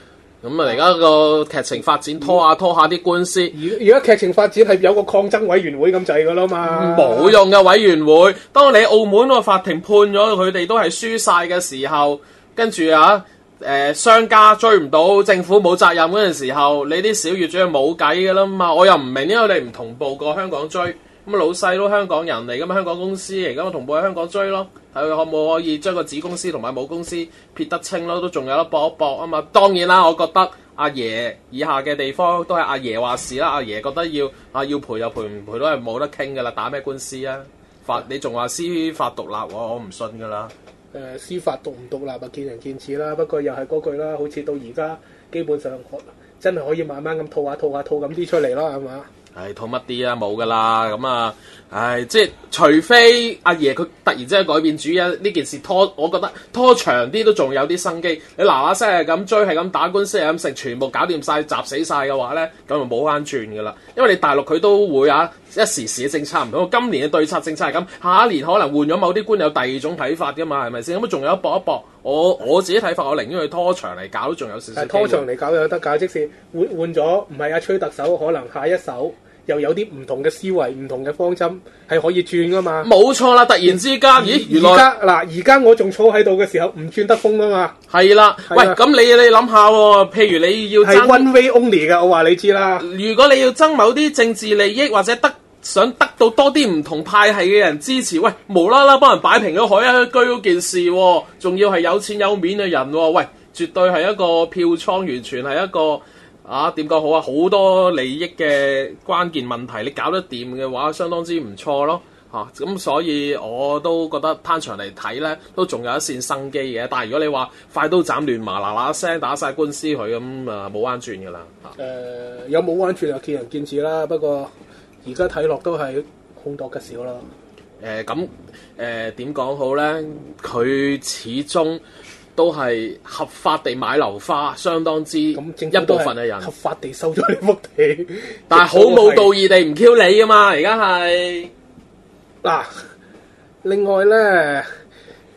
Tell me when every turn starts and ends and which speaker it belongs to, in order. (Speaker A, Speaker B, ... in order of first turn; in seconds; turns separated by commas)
Speaker A: 0.4-3.5, Speaker B: 3.5-7.4, Speaker A: 6.7-40.5, Speaker B: 40.9-49.1, Speaker A: 49.4-75.2, Speaker B: 74.8-82.9, Speaker A: 82.8-84.9, Speaker B: 84.2-87.8, Speaker A: 87.9-91.3, Speaker B: 88.5-88.8, Speaker B: 90.8-92.8, Speaker A: 92.8-121.8, Speaker B: 121.8-124.5, Speaker B: 125.0-127.3, Speaker A: 127.8-131.8, Speaker A: 132.4-136.5, Speaker B: 135.3-139.3, Speaker A: 138.5-141.5, Speaker B: 142.4-142.7, Speaker B: 143.6-144.7